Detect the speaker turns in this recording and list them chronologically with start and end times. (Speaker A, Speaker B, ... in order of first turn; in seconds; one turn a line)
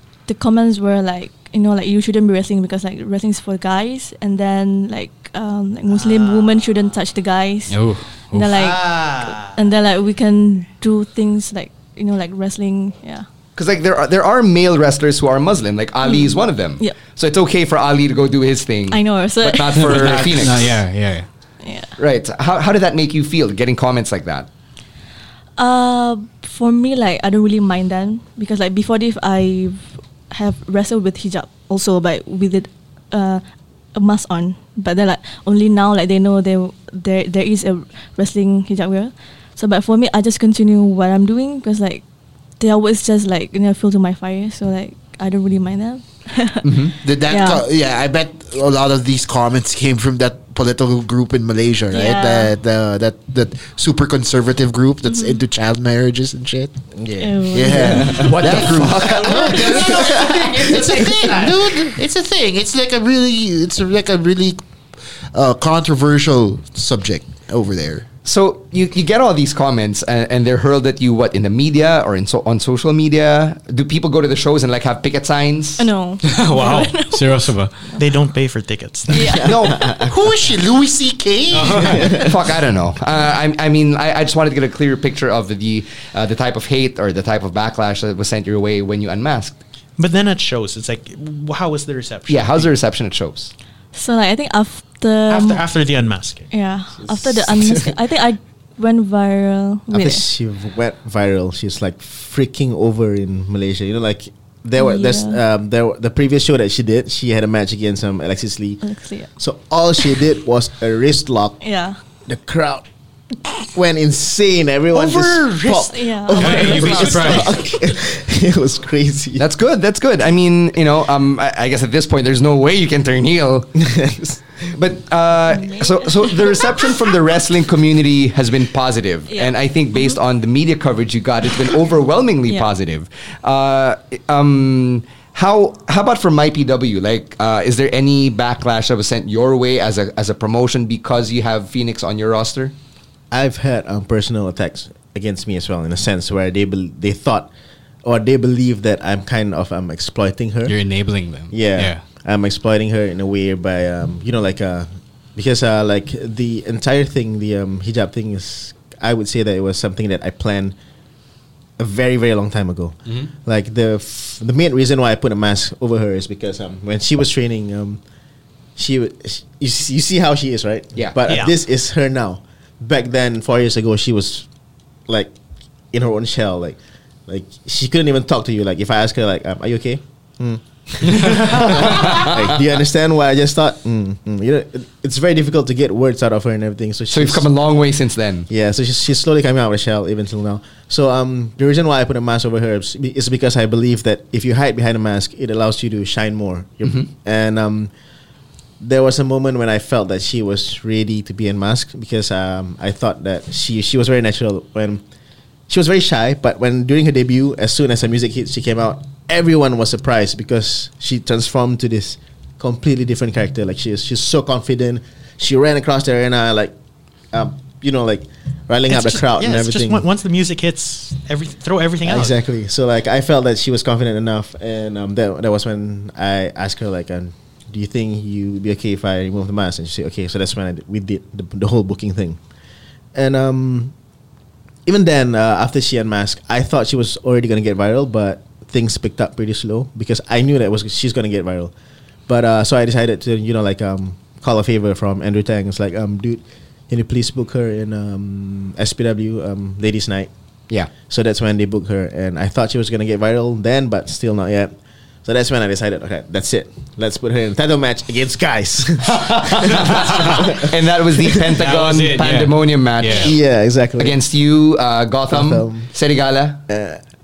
Speaker A: 0.3-13.3
Speaker B: 5.9-6.7
Speaker C: 7.7-8.6
Speaker B: 8.5-9.6
Speaker D: 13.6-20.8
Speaker A: 16.0-17.0
Speaker A: 18.9-20.5
Speaker C: 19.8-21.3
Speaker A: 21.6-21.9
Speaker D: 22.0-24.5
Speaker A: 25.6-33.4
Speaker A: 33.9-42.0
Speaker A: 42.6-47.6
Speaker D: 46.6-46.9
Speaker E: 47.0-56.7
Speaker A: 51.9-52.5
Speaker A: 55.1-55.4
Speaker F: 56.9-58.5
Speaker A: 57.2-58.3
Speaker E: 57.5-64.6
Speaker D: 58.2-59.5
Speaker B: 58.3-61.6
Speaker F: 60.1-61.0
Speaker E: 65.3-68.1
Speaker D: 68.2-75.9
Speaker A: 75.8-78.2
Speaker C: 76.2-77.8
Speaker B: 78.0-79.3
Speaker A: 79.1-79.9
Speaker F: 79.2-80.3
Speaker D: 79.5-79.8
Speaker E: 80.1-82.2
Speaker C: 81.5-82.1
Speaker F: 81.9-82.4
Speaker D: 82.2-89.6
Speaker B: 90.0-92.7
Speaker D: 92.3-93.5
Speaker A: 93.9-95.6
Speaker B: 95.3-96.5
Speaker A: 96.5-100.2
Speaker F: 97.0-98.0
Speaker F: 99.9-108.8
Speaker A: 104.8-105.4
Speaker A: 108.8-109.3
Speaker F: 109.4-111.6
Speaker A: 111.6-112.0
Speaker F: 112.3-112.9
Speaker F: 113.7-119.4
Speaker B: 114.9-117.4
Speaker A: 115.8-117.3
Speaker C: 116.4-117.5
Speaker D: 119.4-123.7
Speaker F: 123.8-124.4
Speaker D: 124.8-142.7
Speaker A: 125.5-127.3
Speaker A: 129.3-130.2
Speaker A: 132.5-132.7
Speaker F: 143.3-147.5
Speaker F: 148.0-150.8
Speaker C: 150.7-152.0
Speaker F: 151.5-160.8
Speaker F: 161.8-168.0
Speaker F: 168.8-174.5
Speaker D: 171.0-171.2
Speaker B: 171.3-171.5
Speaker F: 175.1-175.3
Speaker F: 175.9-187.5
Speaker D: 181.7-182.6
Speaker D: 187.1-188.5
Speaker F: 188.5-197.9
Speaker D: 196.8-197.1
Speaker F: 198.8-205.0
Speaker F: 205.7-216.7
Speaker F: 217.3-220.1
Speaker B: 218.9-222.4
Speaker F: 222.0-232.4
Speaker F: 233.2-233.9
Speaker F: 234.9-241.7
Speaker F: 242.3-250.3
Speaker F: 250.9-261.4
Speaker D: 259.6-266.6
Speaker C: 259.9-260.3
Speaker C: 261.6-263.4
Speaker F: 263.1-264.2
Speaker F: 265.3-265.9
Speaker F: 266.7-267.0